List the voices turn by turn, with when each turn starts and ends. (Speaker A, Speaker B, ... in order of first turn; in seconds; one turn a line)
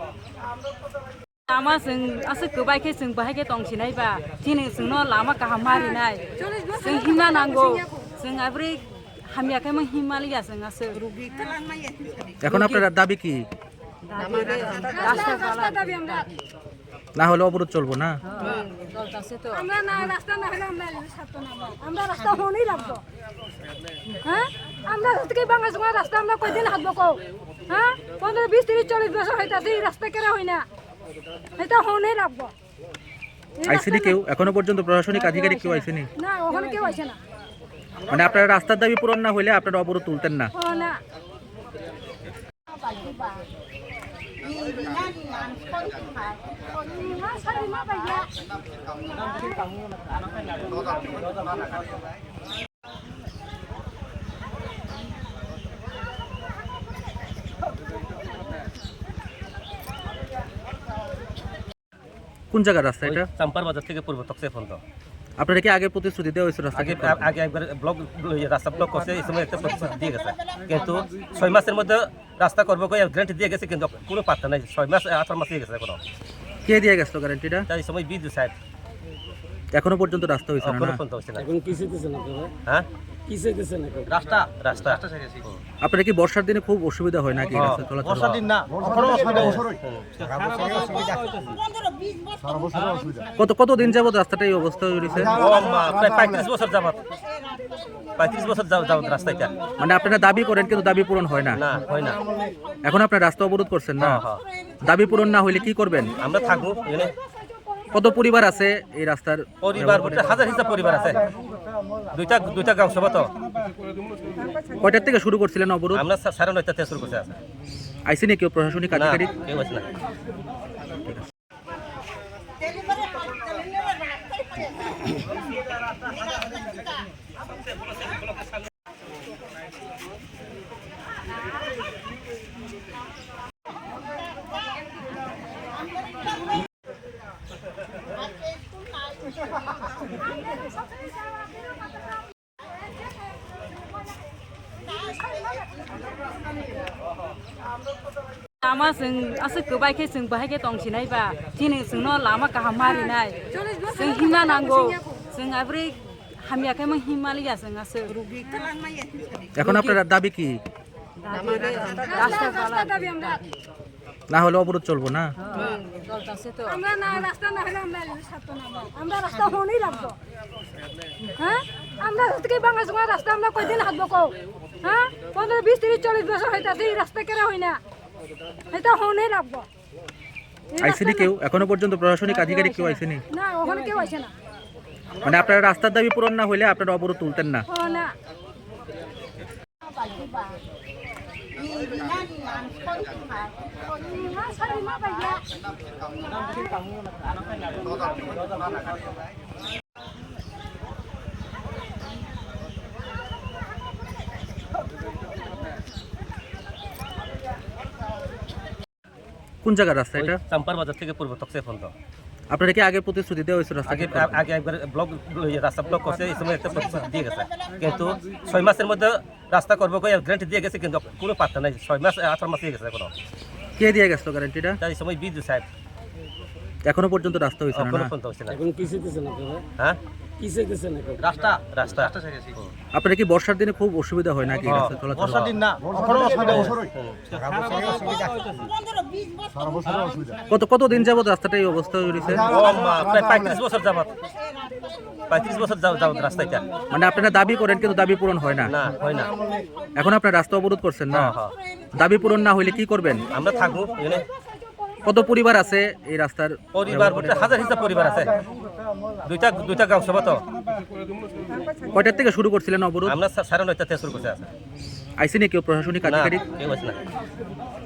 Speaker A: 1.5-11.1
Speaker B: 5.7-8.1
Speaker C: 12.4-13.5
Speaker A: 12.5-12.8
Speaker A: 14.1-16.1
Speaker B: 14.9-16.3
Speaker C: 17.2-18.2
Speaker A: 18.2-20.1
Speaker B: 19.5-23.0
Speaker B: 24.2-27.2
Speaker B: 27.7-30.6
Speaker B: 31.6-32.5
Speaker B: 33.6-34.2
Speaker C: 33.6-36.1
Speaker B: 36.2-37.2
Speaker C: 38.1-40.5
Speaker B: 40.5-41.0
Speaker B: 46.9-48.3
Speaker C: 62.5-63.3
Speaker D: 63.0-64.8
Speaker C: 65.4-67.3
Speaker D: 66.8-76.0
Speaker C: 76.7-77.7
Speaker D: 77.7-78.5
Speaker C: 79.7-81.0
Speaker D: 80.6-81.5
Speaker E: 81.4-82.5
Speaker E: 83.3-84.1
Speaker D: 84.1-85.6
Speaker C: 85.8-88.4
Speaker D: 87.5-91.5
Speaker C: 93.4-95.5
Speaker D: 95.3-97.0
Speaker D: 98.2-99.6
Speaker C: 99.8-101.6
Speaker D: 101.5-102.2
Speaker C: 102.8-104.2
Speaker D: 104.0-104.4
Speaker C: 104.8-106.2
Speaker D: 106.2-107.1
Speaker C: 107.9-110.4
Speaker D: 109.6-111.3
Speaker D: 112.1-113.3
Speaker C: 114.8-116.0
Speaker D: 115.9-117.4
Speaker C: 118.1-119.3
Speaker D: 118.9-119.9
Speaker A: 148.6-153.4
Speaker B: 152.8-155.2
Speaker A: 153.9-158.2
Speaker C: 159.6-160.6
Speaker A: 159.6-160.0
Speaker A: 161.2-163.3
Speaker B: 161.9-163.4
Speaker C: 164.3-165.3
Speaker A: 165.5-166.8
Speaker B: 166.7-170.2
Speaker B: 171.4-177.8
Speaker B: 178.7-179.7
Speaker B: 180.7-181.3
Speaker C: 180.8-183.2
Speaker B: 183.3-184.3
Speaker C: 185.2-187.7
Speaker B: 187.7-188.1
Speaker B: 194.0-195.4
Speaker C: 209.6-210.4
Speaker D: 210.2-211.9
Speaker C: 212.5-214.4
Speaker D: 213.9-223.1
Speaker C: 223.8-224.8
Speaker D: 224.8-225.7
Speaker C: 226.9-228.1
Speaker D: 227.7-228.6
Speaker E: 228.5-229.7
Speaker E: 230.4-231.2
Speaker D: 231.2-232.7
Speaker C: 232.9-235.6
Speaker D: 234.6-238.6
Speaker C: 240.5-242.5
Speaker D: 242.4-244.1
Speaker D: 245.3-246.7
Speaker C: 246.9-248.7
Speaker D: 248.7-249.3
Speaker C: 250.0-251.3
Speaker D: 251.1-251.6
Speaker C: 252.0-253.3
Speaker D: 253.3-254.3
Speaker C: 255.0-257.4
Speaker D: 256.7-258.4
Speaker D: 259.2-260.5
Speaker C: 261.9-263.2
Speaker D: 263.1-264.5
Speaker C: 265.2-266.4
Speaker D: 266.0-267.0